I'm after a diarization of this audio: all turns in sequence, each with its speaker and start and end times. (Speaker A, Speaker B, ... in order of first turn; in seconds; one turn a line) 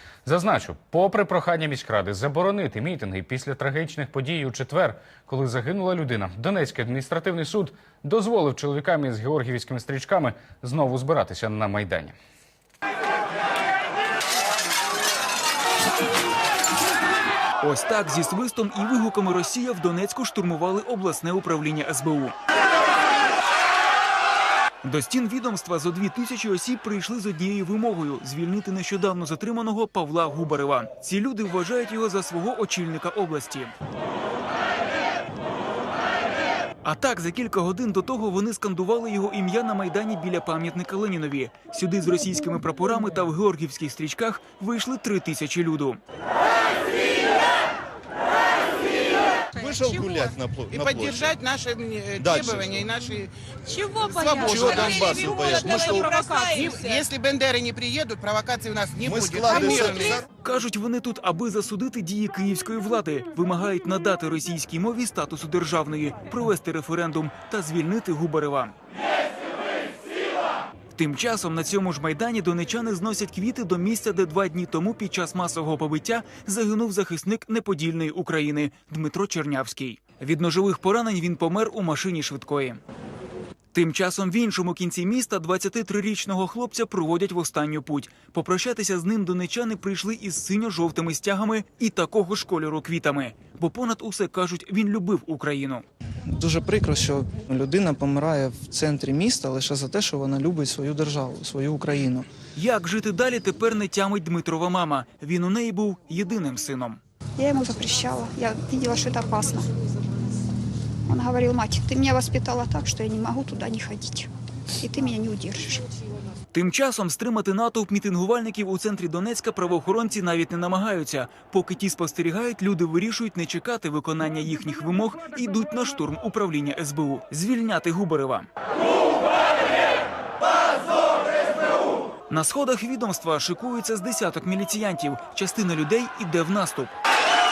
Speaker A: 0.2-12.1
Speaker B: 17.6-22.3
Speaker B: 24.8-33.7
Speaker B: 36.8-46.0
Speaker C: 49.5-51.4
Speaker D: 49.9-50.3
Speaker E: 50.7-53.3
Speaker C: 52.1-52.8
Speaker D: 53.7-57.0
Speaker E: 54.0-60.1
Speaker C: 54.4-56.0
Speaker C: 59.0-60.2
Speaker D: 59.6-60.1
Speaker B: 60.4-68.7
Speaker B: 70.9-82.8
Speaker B: 83.7-95.8
Speaker F: 96.3-102.3
Speaker B: 102.5-107.0
Speaker G: 107.4-109.7
Speaker G: 111.0-114.3
Speaker G: 114.8-115.8
Speaker B: 116.5-128.5
Speaker B: 132.3-136.9